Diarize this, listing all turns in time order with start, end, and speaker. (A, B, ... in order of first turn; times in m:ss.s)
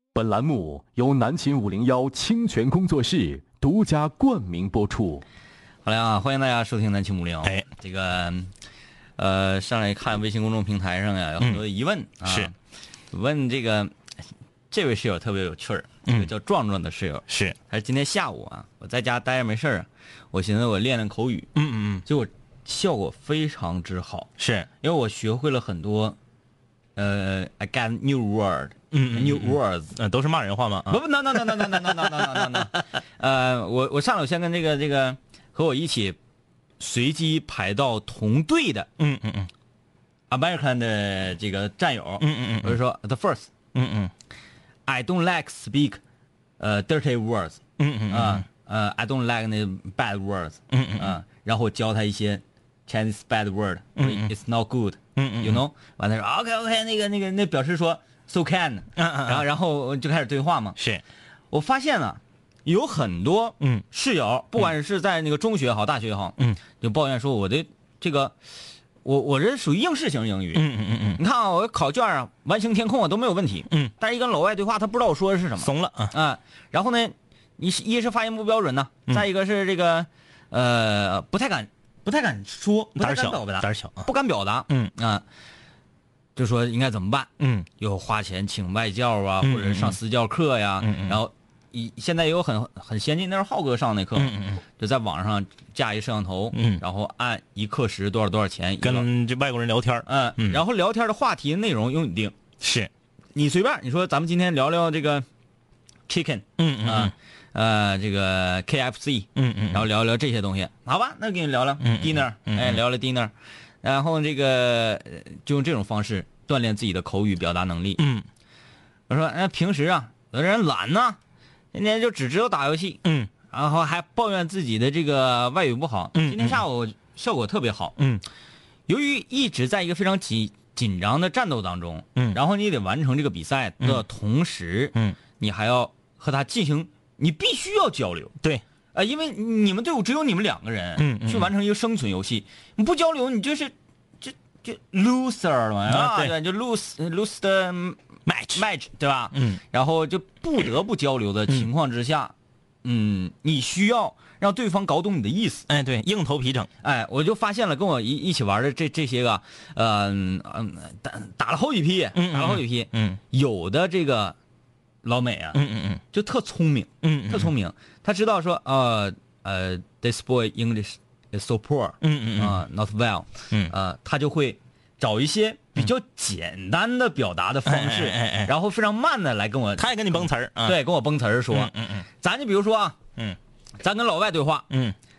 0:00.1-0:05.2 A
0:05.8-0:08.5 B
0:09.2-0:12.5 B
0:12.2-0:12.5 C
0:13.1-0:13.9 B
0:14.7-0:21.5 B
0:16.1-0:16.3 C
0:17.3-0:17.6 C
0:21.5-0:22.0 C
0:22.0-0:24.3 B
0:24.4-0:24.7 C
0:24.8-0:26.2 B
0:27.0-0:29.9 B
0:28.9-0:32.8 C
0:30.9-0:36.2 B
0:36.8-0:38.9 B
0:39.0-0:39.5 C
0:40.3-0:43.5 B
0:42.2-0:42.8 C
0:43.7-0:44.1 C
0:44.8-0:46.0 B
0:46.6-1:00.8 B
0:47.8-0:48.4 C
0:50.7-0:51.2 C
0:54.0-0:54.3 C
0:55.2-0:55.6 C
0:59.0-0:59.4 C
1:00.8-1:01.0 C
1:01.5-1:08.3 B
1:09.0-1:10.6 B
1:10.5-1:11.2 C
1:11.2-1:25.2 B
1:15.6-1:16.1 C
1:23.0-1:24.1 C
1:26.4-1:39.1 B
1:27.4-1:27.7 C
1:29.4-1:30.0 C
1:30.8-1:31.2 C
1:34.1-1:34.6 C
1:36.5-1:36.8 C
1:38.8-1:40.6 C
1:40.0-1:42.3 B
1:42.6-1:42.9 C
1:43.3-1:45.2 B
1:46.1-1:53.3 B
1:46.6-1:47.1 C
1:49.4-1:49.8 C
1:51.8-1:52.8 C
1:53.8-1:58.0 B
1:58.0-1:58.2 C
1:59.1-2:01.2 B
2:01.7-2:07.9 B
2:03.0-2:03.3 C
2:06.1-2:06.6 C
2:08.0-2:08.2 C
2:08.9-2:18.3 B
2:18.9-2:28.0 B
2:21.0-2:21.5 C
2:25.9-2:26.3 C
2:28.2-2:28.6 C
2:28.5-2:35.6 B
2:29.3-2:29.6 C
2:35.7-2:36.7 C
2:36.8-2:44.4 B
2:42.1-2:43.2 C
2:45.0-2:45.6 B
2:45.5-2:46.0 C
2:46.1-3:03.0 B
2:47.0-2:47.5 C
2:52.0-2:52.6 C
2:57.6-2:58.5 C
2:59.8-3:00.8 C
3:01.5-3:02.0 C
3:03.8-3:04.7 B
3:04.7-3:05.0 C